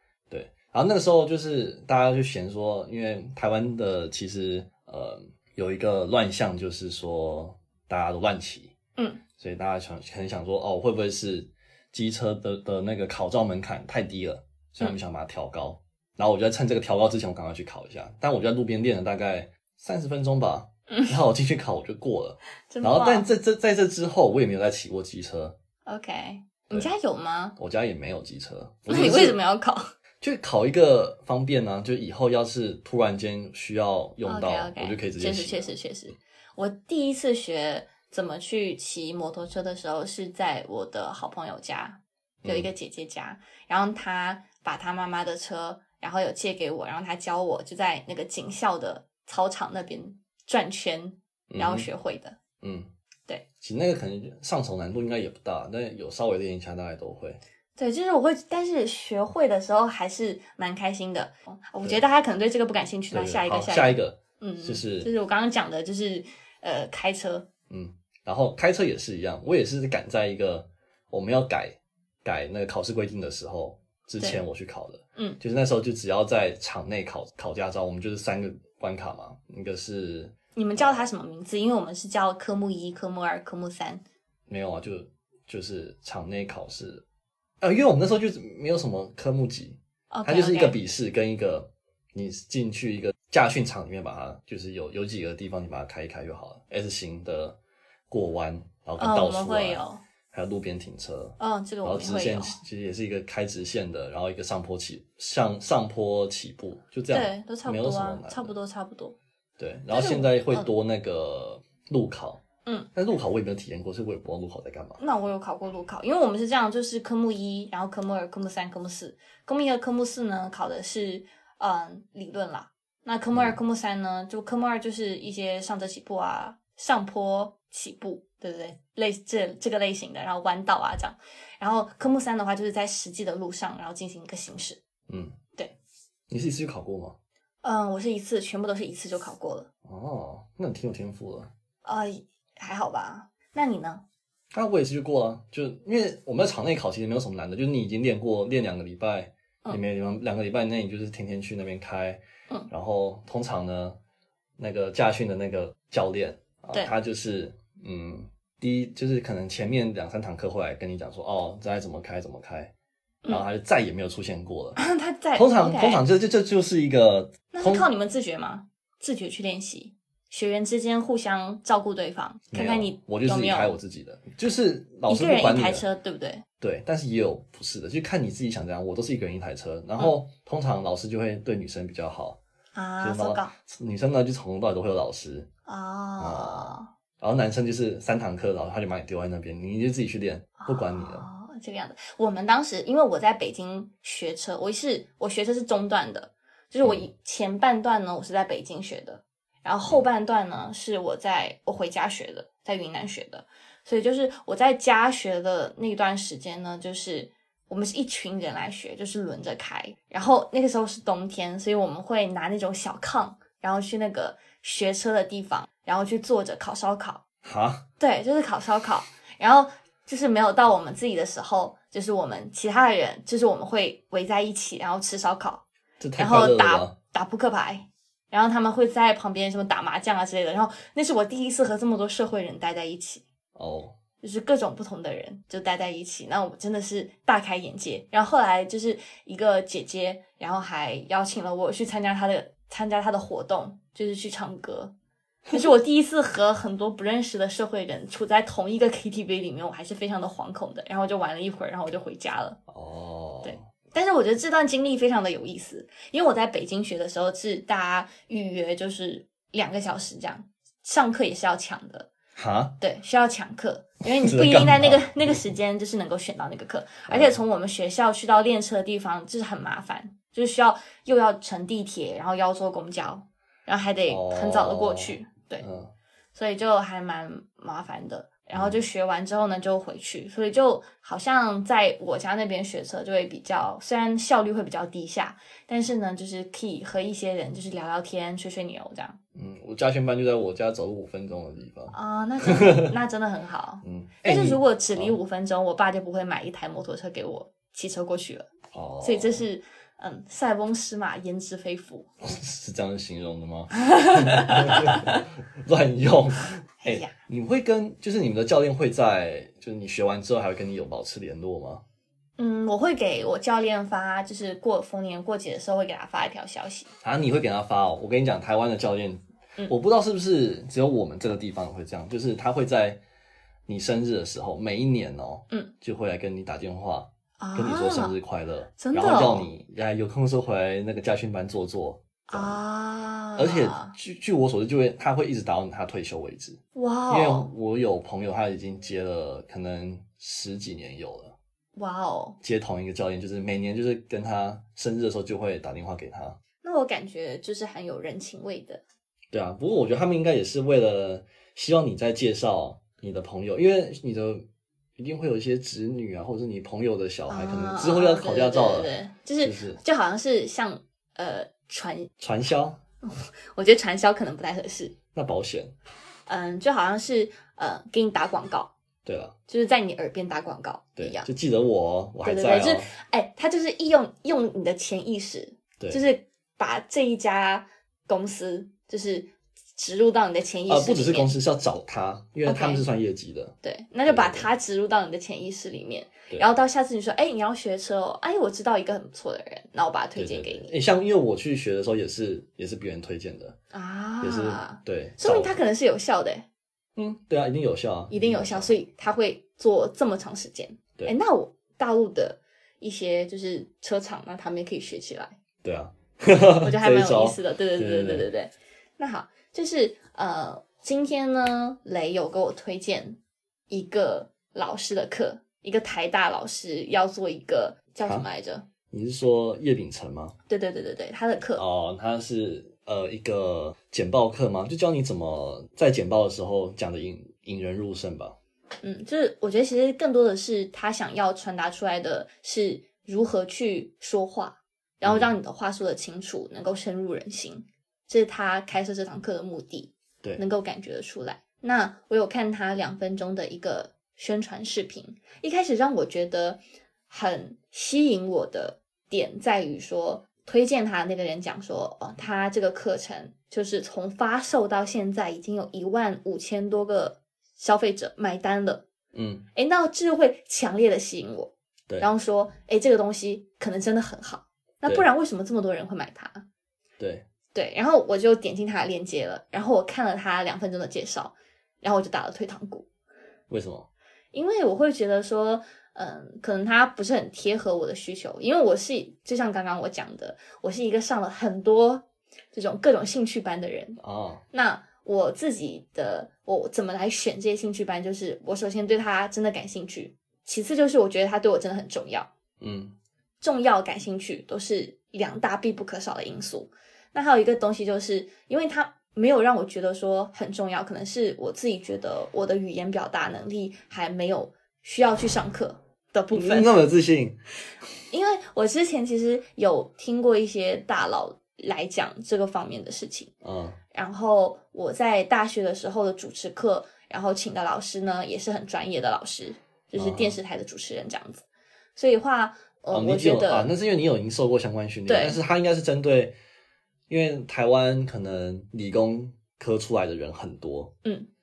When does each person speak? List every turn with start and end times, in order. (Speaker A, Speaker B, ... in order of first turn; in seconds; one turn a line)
Speaker A: 0.3-8.7
Speaker B: 9.0-9.2
Speaker A: 9.4-25.6
Speaker B: 20.9-21.2
Speaker B: 22.7-23.3
Speaker B: 25.9-27.6
Speaker A: 27.6-29.4
Speaker B: 28.9-29.9
Speaker A: 30.2-35.7
Speaker B: 34.2-52.4
Speaker A: 42.4-42.7
Speaker A: 51.5-51.9
Speaker A: 52.6-52.9
Speaker A: 53.6-57.4
Speaker B: 57.8-67.5
Speaker A: 63.1-65.1
Speaker A: 67.7-81.0
Speaker B: 80.6-84.0
Speaker A: 84.5-87.0
Speaker A: 87.6-97.6
Speaker B: 90.1-90.8
Speaker A: 98.1-108.5
Speaker B: 99.0-100.0
Speaker B: 101.4-102.6
Speaker B: 107.1-109.2
Speaker A: 109.6-112.4
Speaker B: 109.9-110.7
Speaker A: 112.9-115.0
Speaker B: 115.0-134.8
Speaker A: 135.1-135.4
Speaker A: 136.3-137.2
Speaker B: 137.6-139.7
Speaker A: 139.8-141.5
Speaker B: 141.8-144.0
Speaker A: 144.5-154.0
Speaker A: 154.6-162.7
Speaker A: 163.3-164.8
Speaker B: 164.8-166.1
Speaker A: 165.4-167.9
Speaker B: 167.5-173.8
Speaker A: 172.5-175.8
Speaker B: 175.1-176.4
Speaker A: 176.6-182.4
Speaker B: 182.8-183.5
Speaker A: 183.0-185.5
Speaker B: 185.7-186.9
Speaker A: 186.2-191.3
Speaker B: 190.6-217.2
Speaker A: 217.4-217.8
Speaker B: 218.0-225.6
Speaker A: 226.0-226.9
Speaker B: 226.2-233.2
Speaker A: 233.6-234.0
Speaker B: 234.2-244.9
Speaker B: 245.5-252.6
Speaker A: 252.7-253.6
Speaker B: 253.4-262.1
Speaker A: 262.4-262.8
Speaker B: 262.8-275.7
Speaker A: 264.2-265.4
Speaker A: 267.1-267.4
Speaker A: 274.1-275.9
Speaker B: 276.4-289.2
Speaker A: 278.5-278.8
Speaker A: 289.4-292.9
Speaker B: 291.9-302.1
Speaker A: 293.8-295.2
Speaker A: 298.7-299.4
Speaker A: 302.2-311.8
Speaker B: 303.8-305.2
Speaker B: 306.8-307.2
Speaker B: 312.4-316.9
Speaker A: 317.0-323.0
Speaker A: 323.7-332.6
Speaker B: 327.4-328.2
Speaker B: 328.8-329.5
Speaker B: 332.3-333.9
Speaker A: 333.4-336.6
Speaker B: 336.8-337.5
Speaker A: 337.1-341.4
Speaker B: 341.8-342.4
Speaker A: 342.4-346.4
Speaker B: 346.6-348.8
Speaker A: 349.3-354.4
Speaker A: 355.0-359.8
Speaker B: 357.3-362.1
Speaker A: 362.2-362.8
Speaker B: 363.0-364.9
Speaker A: 365.1-365.7
Speaker B: 366.3-368.7
Speaker A: 369.1-369.4
Speaker B: 369.5-371.3
Speaker A: 371.0-372.9
Speaker B: 372.2-381.4
Speaker A: 380.7-383.6
Speaker B: 382.4-382.9
Speaker B: 383.6-390.8
Speaker A: 384.1-384.5
Speaker A: 390.2-393.6
Speaker B: 393.7-396.5
Speaker A: 394.2-395.6
Speaker A: 397.0-398.7
Speaker B: 398.1-405.4
Speaker A: 405.6-408.3
Speaker B: 406.6-413.2
Speaker B: 413.7-418.7
Speaker A: 418.9-420.4
Speaker B: 420.5-421.6
Speaker A: 421.6-428.4
Speaker B: 428.8-458.9
Speaker A: 435.0-435.3
Speaker A: 459.1-459.4
Speaker B: 459.6-466.4
Speaker A: 467.0-467.2
Speaker B: 467.5-472.9
Speaker A: 473.5-473.9
Speaker B: 474.3-484.0
Speaker A: 484.0-484.4
Speaker B: 484.5-492.3
Speaker A: 492.6-492.9
Speaker B: 493.4-506.8
Speaker A: 506.3-507.4
Speaker B: 508.1-513.3
Speaker A: 513.4-513.8
Speaker B: 513.9-523.7
Speaker A: 520.0-520.4
Speaker A: 522.9-526.4
Speaker B: 525.1-525.4
Speaker A: 527.1-530.9